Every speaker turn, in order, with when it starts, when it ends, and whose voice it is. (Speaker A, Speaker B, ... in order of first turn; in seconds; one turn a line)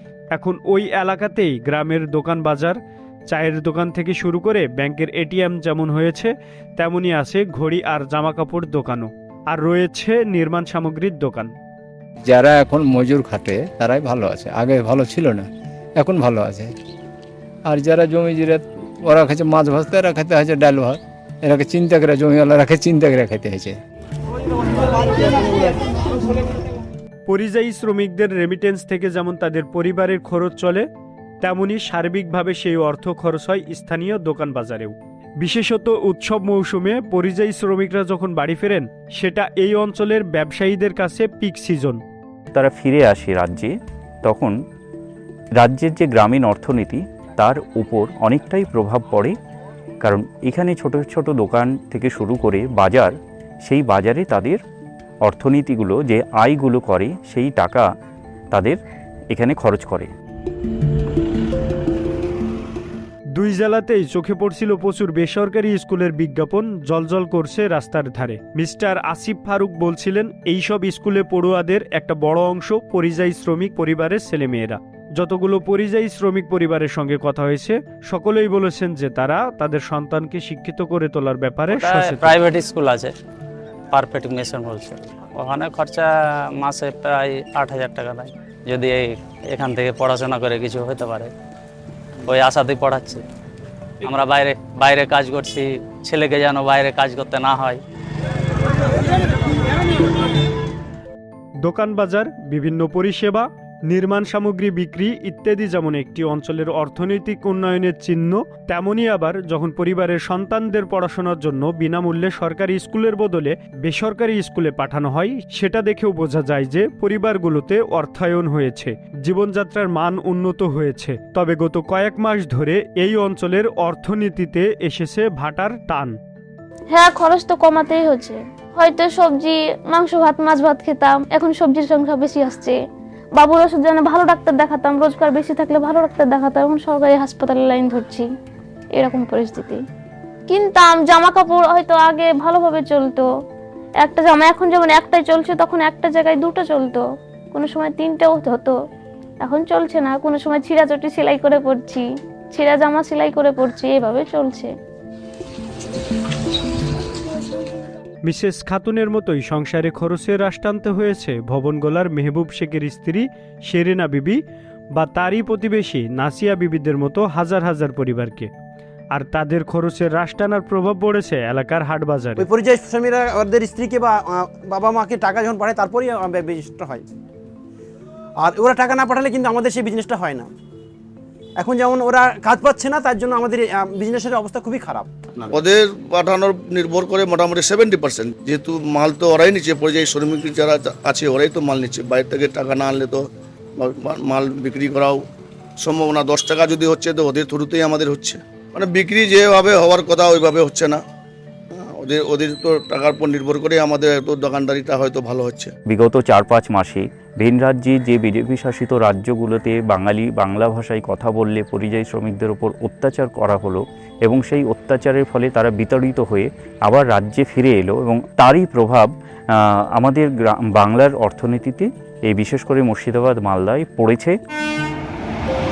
Speaker A: 0.3-2.8
Speaker A: 3.3-11.5
Speaker B: 12.2-16.7
Speaker B: 17.7-23.8
Speaker A: 27.3-30.9
Speaker A: 31.4-42.0
Speaker C: 42.5-43.7
Speaker C: 44.2-44.5
Speaker C: 45.6-49.4
Speaker C: 50.0-53.1
Speaker C: 53.6-54.6
Speaker C: 55.2-57.9
Speaker C: 58.5-58.8
Speaker C: 59.3-60.1
Speaker A: 63.4-82.4
Speaker D: 81.7-83.1
Speaker D: 83.9-91.3
Speaker D: 92.3-93.2
Speaker D: 94.0-97.8
Speaker A: 101.6-126.2
Speaker E: 126.9-132.8
Speaker E: 133.4-138.3
Speaker E: 138.9-139.8
Speaker E: 140.5-143.3
Speaker E: 144.0-148.8
Speaker E: 149.4-154.7
Speaker A: 158.2-164.4
Speaker A: 165.0-168.5
Speaker A: 169.1-172.5
Speaker F: 172.4-177.0
Speaker F: 178.4-180.5
Speaker F: 181.6-185.6
Speaker G: 185.5-193.2
Speaker G: 193.8-195.2
Speaker G: 195.8-201.0
Speaker G: 201.8-205.7
Speaker C: 205.9-224.4